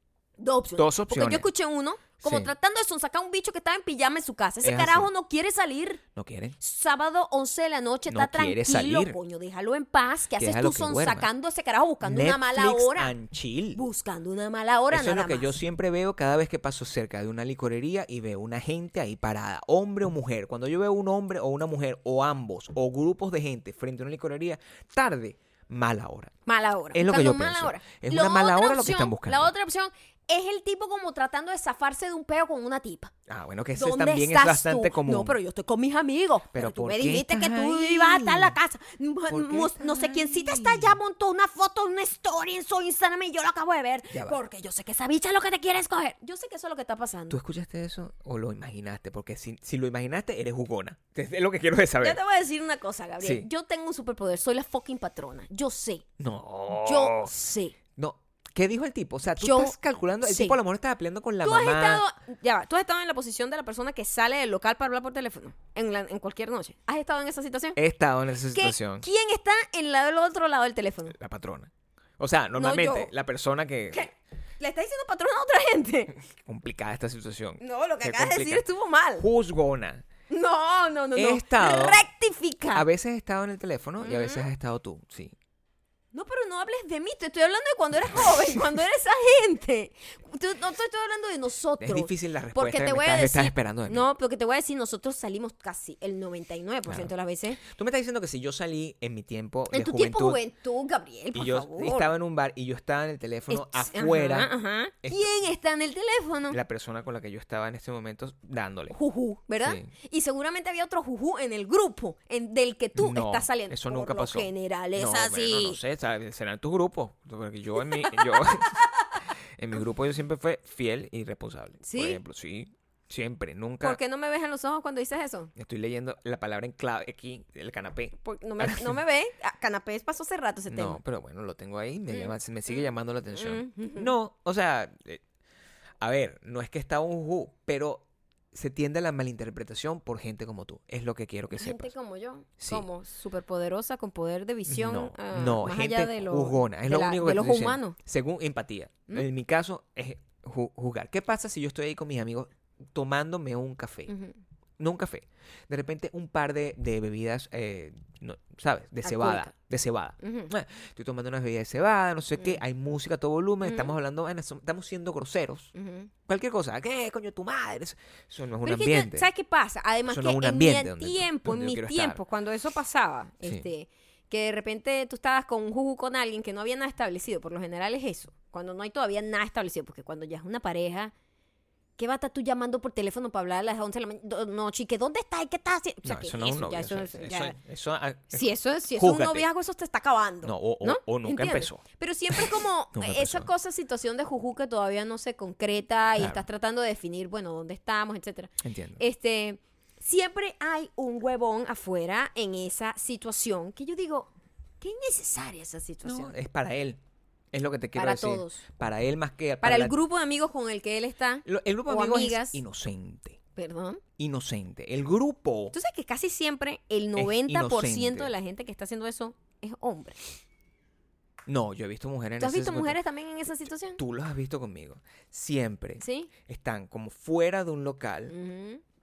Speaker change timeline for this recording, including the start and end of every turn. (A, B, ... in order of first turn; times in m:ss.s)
0:00.4-0:06.0 A
0:00.8-0:01.4 B
0:02.2-0:02.5 B
0:04.6-0:05.1 B
0:06.1-0:06.6 B
0:06.6-0:13.1 A
0:08.1-0:09.2 B
0:10.4-0:11.3 B
0:12.0-0:13.8 B
0:13.7-0:15.5 A
0:14.9-0:26.3 B
0:26.5-0:33.1 A
0:26.9-0:29.5 B
0:33.3-0:35.4 B
0:33.7-0:47.4 A
0:36.5-0:38.5 B
0:39.3-0:41.0 B
0:44.1-0:44.4 B
0:47.3-0:52.2 B
0:52.0-0:56.0 A
0:53.2-0:53.5 B
0:56.2-0:57.3 B
0:56.8-0:57.8 A
0:58.0-1:02.0 B
0:59.4-1:00.6 A
1:01.4-1:07.8 A
1:07.8-1:09.0 B
1:08.5-1:11.2 A
1:11.1-1:14.1 B
1:12.6-1:13.1 A
1:13.9-1:16.2 A
1:16.3-1:18.6 B
1:17.6-1:19.3 A
1:19.2-1:20.0 B
1:20.3-1:22.8 A
1:21.2-1:22.0 B
1:22.7-1:25.3 B
1:24.0-1:24.5 A
1:26.1-1:37.6 A
1:31.8-1:34.0 B
1:36.9-1:40.4 B
1:39.7-1:42.1 A
1:41.3-1:45.3 B
1:43.5-1:46.6 A
1:46.5-1:49.0 B
1:48.9-1:55.8 A
1:49.6-1:49.9 B
1:53.0-1:58.8 B
1:59.6-2:04.0 B
2:01.8-2:02.2 A
2:03.8-2:05.5 A
2:05.5-2:09.0 B
2:08.2-2:11.0 A
2:10.7-2:15.2 B
2:12.1-2:14.1 A
2:16.0-2:21.9 B
2:21.6-2:28.0 A
2:22.6-2:22.8 B
2:24.7-2:34.1 B
2:34.1-2:34.4 A
2:34.8-2:45.7 B
2:39.0-2:39.5 A
2:40.2-2:40.5 A
2:43.6-2:43.9 A
2:45.7-2:46.1 A
2:46.3-2:49.3 B
2:48.6-3:01.1 A
2:50.0-2:52.2 B
3:02.0-3:07.6 A
3:06.0-3:09.5 B
3:08.3-3:26.3 A
3:10.4-3:13.5 B
3:16.2-3:16.4 B
3:18.6-3:19.0 B
3:26.0-3:27.0 B
3:27.5-3:30.0 B
3:28.0-3:28.6 A
3:29.6-3:32.6 A
3:31.4-3:33.4 B
3:33.6-3:34.0 A
3:34.2-3:35.7 B
3:35.7-3:40.2 A
3:37.2-3:38.3 B
3:41.4-3:43.0 B
3:42.4-3:44.0 A
3:44.0-3:48.3 B
3:46.0-3:46.3 A
3:48.3-3:48.8 A